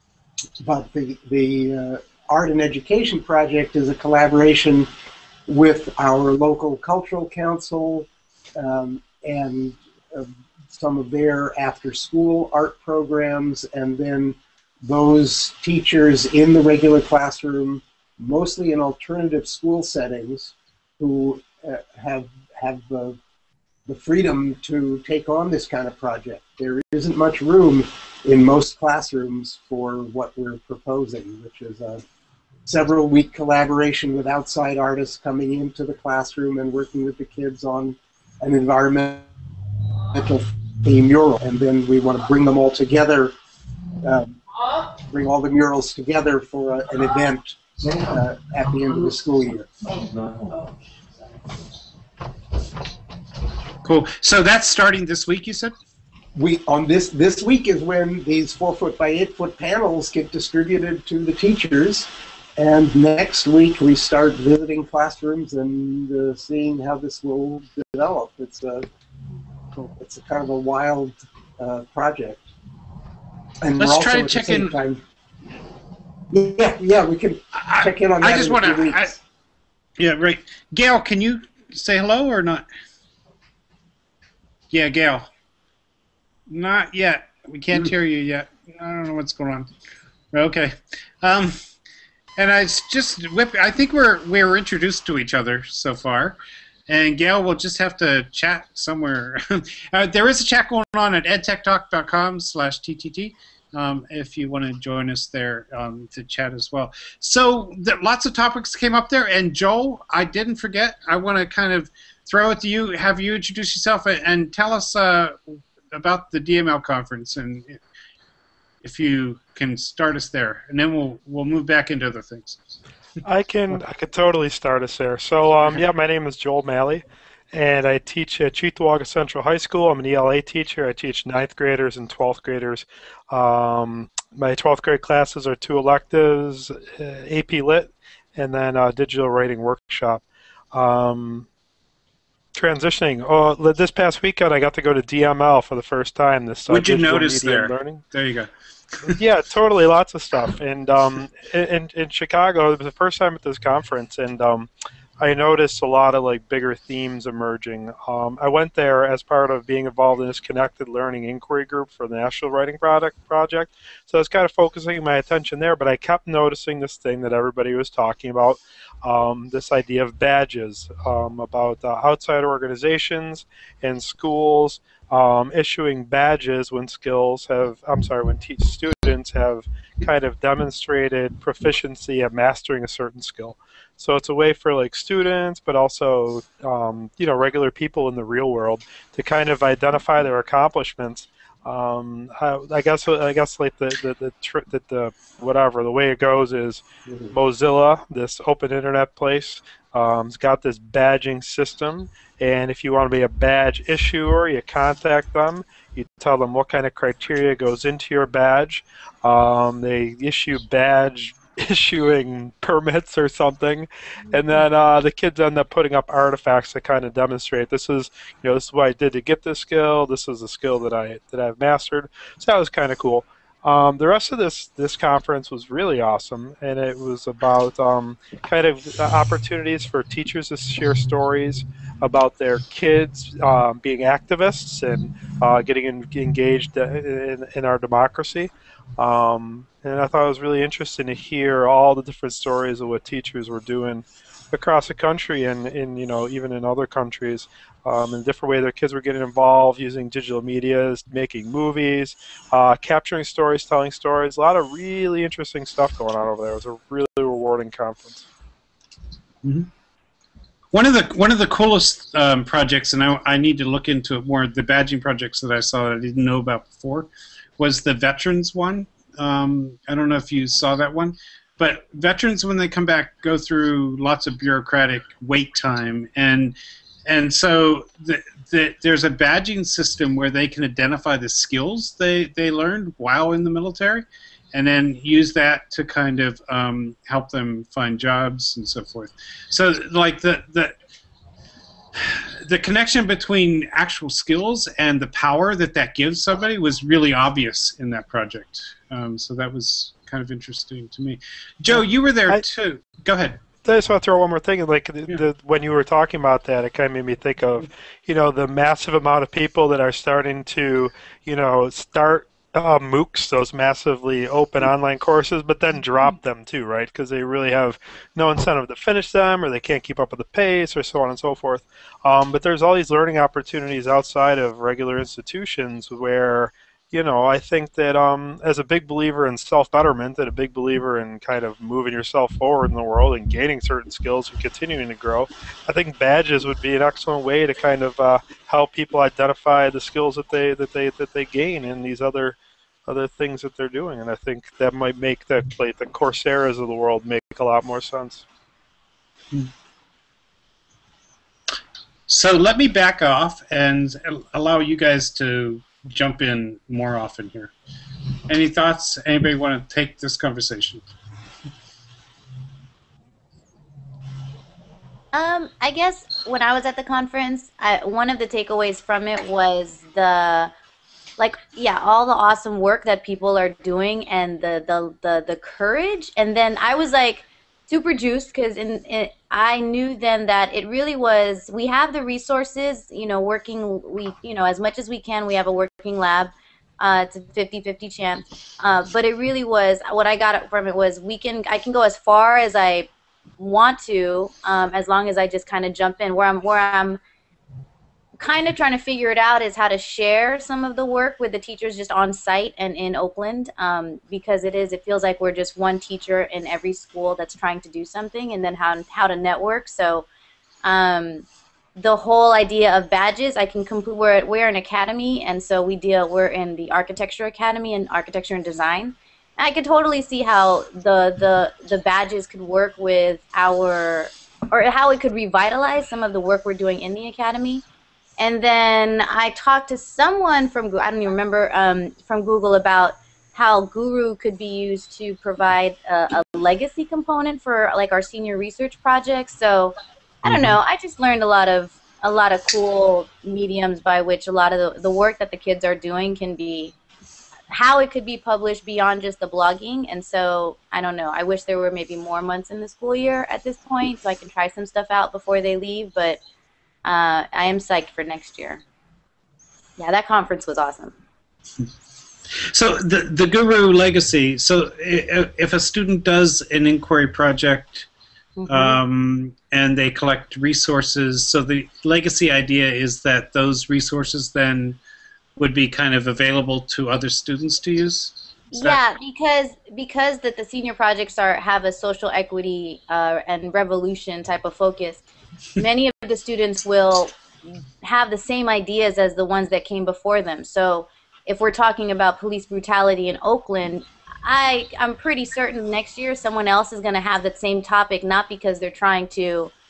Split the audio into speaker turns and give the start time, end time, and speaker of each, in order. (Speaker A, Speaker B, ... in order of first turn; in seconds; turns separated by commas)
Speaker A: 0.6-4.9, Speaker A: 5.5-23.2, Speaker A: 23.9-32.0, Speaker A: 32.6-39.3, Speaker A: 40.0-43.3, Speaker A: 44.0-44.4, Speaker A: 44.9-49.7, Speaker B: 53.8-55.7, Speaker A: 56.3-68.8, Speaker A: 70.0-72.5, Speaker A: 73.6-75.0, Speaker B: 73.8-74.8, Speaker A: 76.3-79.1, Speaker B: 77.5-79.1, Speaker B: 80.0-82.7, Speaker B: 84.7-85.2, Speaker B: 86.5-89.7, Speaker B: 90.3-91.6, Speaker B: 92.4-117.8, Speaker B: 118.8-122.6, Speaker C: 123.2-141.5, Speaker C: 142.5-148.0, Speaker B: 146.7-148.5, Speaker C: 149.1-154.7, Speaker C: 155.2-258.2, Speaker B: 259.4-259.7, Speaker B: 260.7-276.5, Speaker B: 277.1-290.7, Speaker B: 292.1-303.4, Speaker C: 301.7-302.4, Speaker C: 303.6-348.2, Speaker B: 352.1-357.5, Speaker B: 358.3-360.8, Speaker D: 365.1-370.5, Speaker D: 371.2-397.0, Speaker D: 398.2-410.1, Speaker D: 410.6-411.2, Speaker D: 411.8-427.6, Speaker D: 428.2-446.7, Speaker B: 440.2-440.6, Speaker D: 447.5-456.2, Speaker D: 456.8-458.6, Speaker D: 459.8-460.9, Speaker B: 462.5-467.9, Speaker D: 468.4-468.8, Speaker B: 468.5-474.8, Speaker B: 475.4-478.8, Speaker D: 478.5-485.0, Speaker D: 485.6-487.1, Speaker D: 487.8-499.5